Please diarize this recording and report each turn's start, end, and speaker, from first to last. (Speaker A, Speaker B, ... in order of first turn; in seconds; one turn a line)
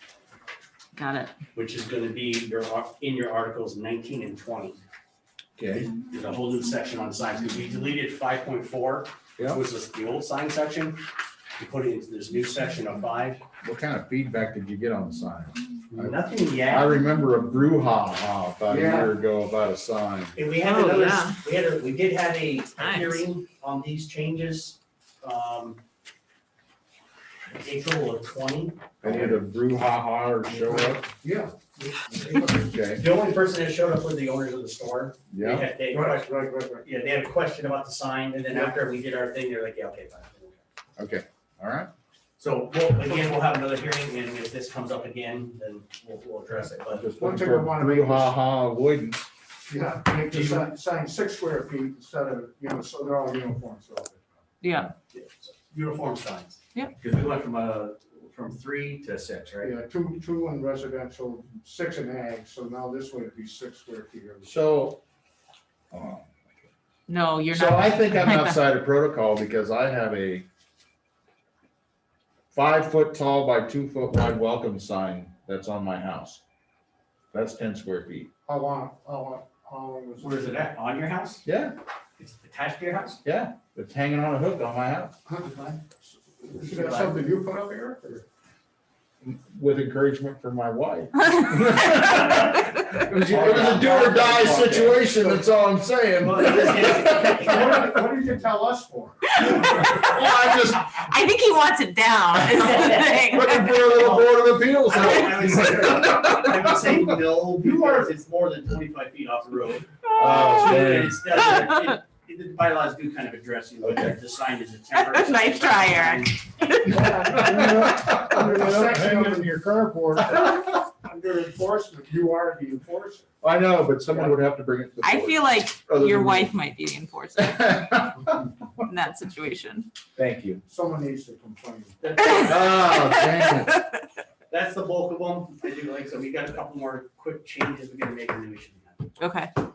Speaker A: 0.9-1.3
Speaker B: 1.5-4.8
Speaker C: 5.6-5.9
Speaker B: 5.7-11.0
Speaker B: 11.6-13.4
Speaker C: 13.6-20.4
Speaker B: 15.9-17.0
Speaker D: 18.7-19.1
Speaker B: 20.4-25.8
Speaker A: 20.6-21.4
Speaker A: 22.8-23.2
Speaker B: 27.6-28.9
Speaker D: 29.0-29.4
Speaker C: 29.0-31.0
Speaker D: 30.5-32.7
Speaker B: 32.2-40.6
Speaker C: 32.5-33.0
Speaker C: 35.3-35.7
Speaker D: 35.9-36.9
Speaker D: 38.5-38.8
Speaker C: 41.0-41.9
Speaker B: 42.4-47.1
Speaker C: 46.9-49.3
Speaker D: 47.2-48.4
Speaker D: 49.7-54.2
Speaker B: 50.3-50.7
Speaker A: 54.6-54.9
Speaker B: 55.1-59.7
Speaker D: 59.6-64.5
Speaker C: 64.4-65.0
Speaker C: 65.9-66.4
Speaker A: 67.1-68.6
Speaker C: 67.5-70.5
Speaker C: 72.5-76.4
Speaker C: 77.3-78.3
Speaker D: 78.5-80.7
Speaker B: 80.2-81.5
Speaker C: 81.5-81.8
Speaker B: 82.2-83.2
Speaker C: 83.2-85.2
Speaker D: 85.3-88.2
Speaker B: 85.4-85.8
Speaker B: 86.5-87.2
Speaker C: 89.2-97.6
Speaker D: 93.1-95.4
Speaker B: 93.3-94.9
Speaker B: 96.2-98.1
Speaker D: 97.4-99.4
Speaker C: 99.4-101.1
Speaker A: 99.7-100.0
Speaker A: 101.1-103.9
Speaker C: 102.3-106.9
Speaker B: 103.9-116.5
Speaker D: 105.6-106.1
Speaker D: 106.7-108.1
Speaker C: 110.1-111.5
Speaker C: 113.8-114.2
Speaker A: 114.9-117.2
Speaker D: 116.8-120.6
Speaker C: 117.1-119.6
Speaker C: 120.2-120.7
Speaker B: 121.1-121.5
Speaker D: 121.2-123.3
Speaker C: 123.4-126.6
Speaker A: 125.0-128.1
Speaker C: 127.4-128.8
Speaker A: 128.8-129.9
Speaker C: 130.2-130.6
Speaker D: 130.7-132.2
Speaker B: 132.0-132.7
Speaker A: 132.2-133.9
Speaker C: 132.4-133.7
Speaker B: 134.5-139.1
Speaker A: 139.2-139.5